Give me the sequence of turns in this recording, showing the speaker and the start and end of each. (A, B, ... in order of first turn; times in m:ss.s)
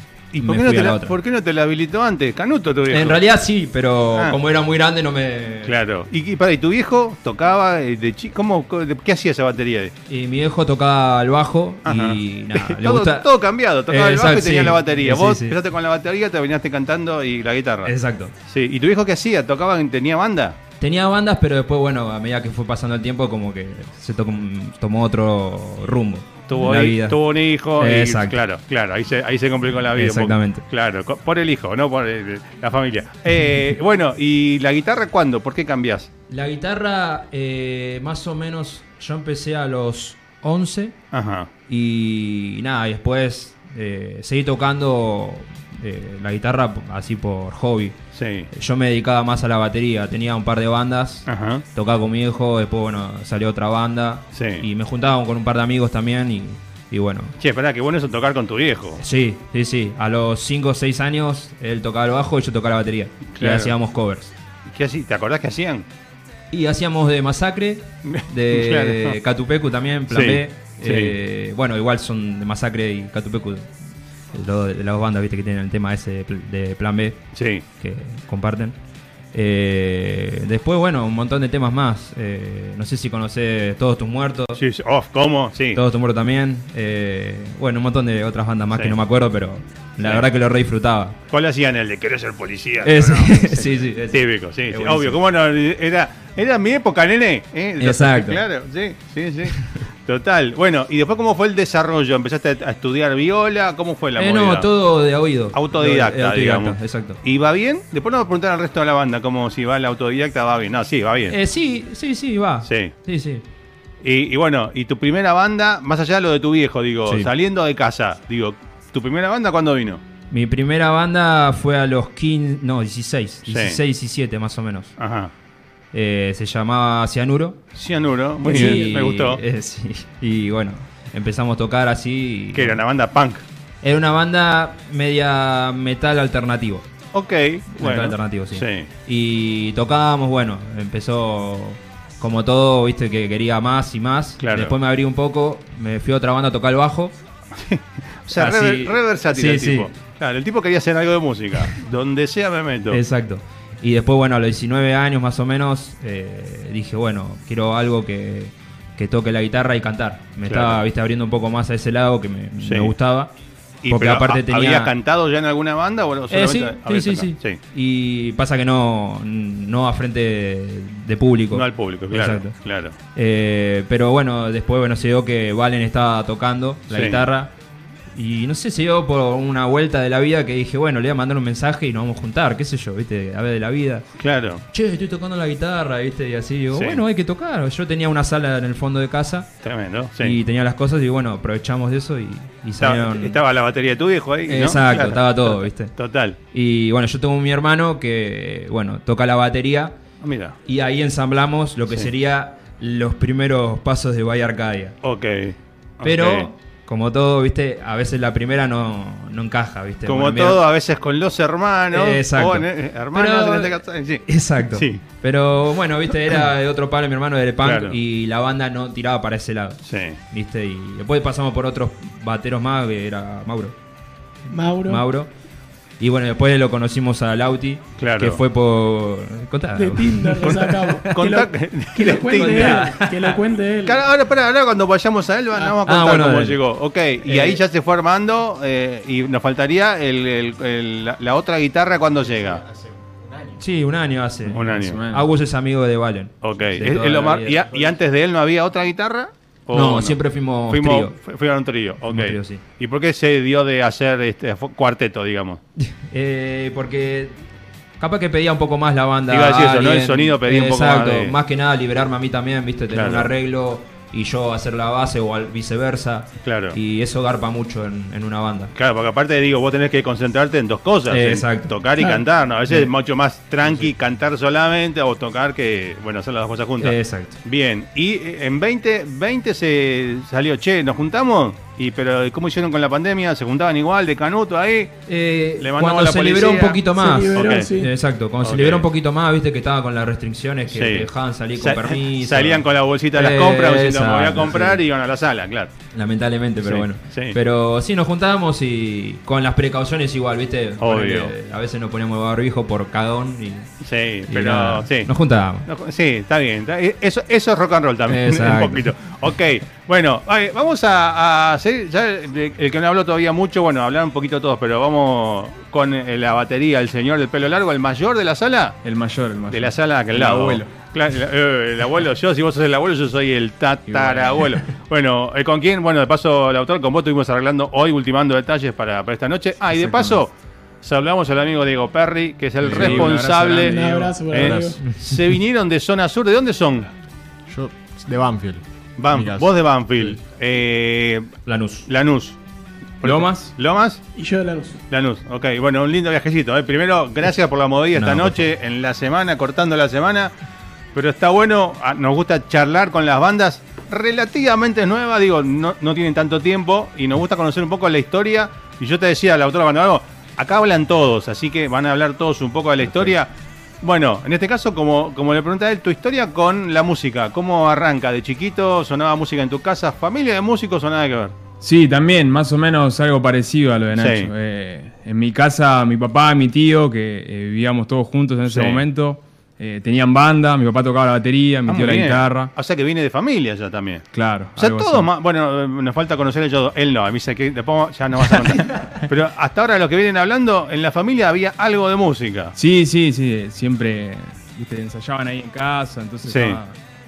0:00.3-0:03.2 A
0:00.4-0:01.2 B
0:02.9-0:05.8 B
0:05.7-0:09.9 A
0:10.1-0:13.3 B
0:11.8-0:17.9 A
0:13.9-0:15.6 B
0:17.8-0:18.3 B
0:18.5-0:20.6 A
0:20.8-0:27.2 B
0:26.5-0:36.1 A
0:27.8-0:28.4 B
0:29.9-0:30.6 B
0:36.3-0:41.0 B
0:41.1-0:41.5 A
0:41.7-0:48.0 B
0:48.2-0:48.5 A
0:48.5-0:57.4 B
0:51.3-0:51.6 A
0:54.3-0:54.6 A
0:57.4-0:59.0 A
0:59.0-1:04.4 B
1:03.4-1:03.7 A
1:04.7-1:05.9 A
1:06.5-1:13.7 B
1:08.0-1:09.2 A
1:10.1-1:11.2 A
1:14.3-1:18.8 B
1:17.3-1:17.6 A
1:19.3-1:24.6 B
1:24.6-1:25.8 A
1:25.7-1:31.2 B
1:30.0-1:30.3 A
1:31.3-1:44.7 A
1:32.8-1:35.2 B
1:37.8-1:38.4 B
1:39.5-1:39.8 B
1:44.2-1:47.2 B
1:45.5-1:51.4 A
1:51.3-1:53.4 B
1:52.7-1:52.9 A
1:54.0-2:00.0 A
2:00.3-2:05.0 B
2:03.5-2:03.8 A
2:05.0-2:05.3 A
2:05.9-2:07.6 B
2:07.8-2:09.4 A
2:08.4-2:12.8 B
2:08.5-2:09.0 C
2:12.5-2:13.4 A
2:13.8-2:16.9 B
2:17.1-2:18.9 A
2:17.7-2:27.2 B
2:24.4-2:24.8 A
2:27.6-2:33.0 A
2:28.3-2:29.9 B
2:32.9-2:43.3 B
2:40.5-2:40.8 A
2:42.6-2:42.9 A
2:43.8-2:47.6 A
2:43.9-2:44.9 B
2:46.3-2:52.6 B
2:51.5-2:53.0 A
2:53.1-2:57.5 B
2:56.9-2:57.3 A
2:58.1-3:04.1 B
3:04.2-3:04.6 A
3:04.7-3:09.6 B
3:06.7-3:07.0 A
3:09.6-3:10.4 A
3:10.2-3:13.4 B
3:12.8-3:16.4 A
3:14.5-3:16.0 B
3:16.5-3:20.0 B
3:20.2-3:20.6 A
3:20.6-3:25.0 B
3:25.0-3:26.5 A
3:26.0-3:30.6 B
3:30.1-3:35.0 A
3:31.9-3:43.8 B
3:37.6-3:38.0 A
3:39.9-3:40.2 A
3:44.5-3:45.1 C
3:44.9-3:45.3 B
3:46.0-3:51.2 B
3:48.0-3:48.4 A
3:49.8-3:54.0 C
3:51.1-3:52.9 A
3:52.3-3:53.4 B
3:53.8-4:02.6 A
3:55.8-3:56.6 B
3:57.3-3:57.6 B
4:02.2-4:03.6 D
4:03.6-4:07.9 B
4:04.5-4:05.0 A
4:04.6-4:05.3 E
4:06.4-4:15.6 A
4:09.7-4:11.2 B
4:12.1-4:12.6 B
4:15.8-4:17.4 B
4:18.0-4:28.7 B
4:19.3-4:21.4 A
4:22.9-4:23.3 A
4:26.4-4:26.8 A
4:28.8-4:45.0 A
4:31.1-4:32.9 B
4:36.8-4:37.4 B
4:45.1-4:54.8 B
4:45.6-4:47.7 A
4:47.0-4:47.9 C
4:48.4-4:48.9 A
4:50.7-4:55.7 A
4:55.9-5:03.7 B
4:56.6-4:57.4 A
5:00.8-5:01.3 A
5:03.8-5:05.1 A
5:04.3-5:05.7 B
5:05.7-5:18.8 A
5:08.1-5:08.9 B
5:18.8-5:20.7 E
5:19.5-5:33.8 A
5:23.9-5:24.6 E
5:29.8-5:30.2 B
5:32.6-5:34.3 E
5:32.6-5:33.2 D
5:33.5-5:34.8 C
5:34.3-5:36.9 A
5:34.4-5:34.8 D
5:34.8-5:35.2 B
5:37.5-5:40.2 D
5:39.0-5:42.4 A
5:41.5-5:41.9 B
5:43.0-5:44.0 A
5:43.0-5:43.6 E
5:44.2-5:44.8 C
5:44.9-5:50.3 A
5:48.0-5:48.5 B
5:50.9-6:03.3 A
6:03.8-6:11.4 A
6:11.6-6:22.5 E
6:14.0-6:14.3 A
6:18.5-6:18.8 A
6:21.7-6:32.5 A
6:24.1-6:25.1 E
6:32.6-6:36.8 E
6:36.3-6:36.6 A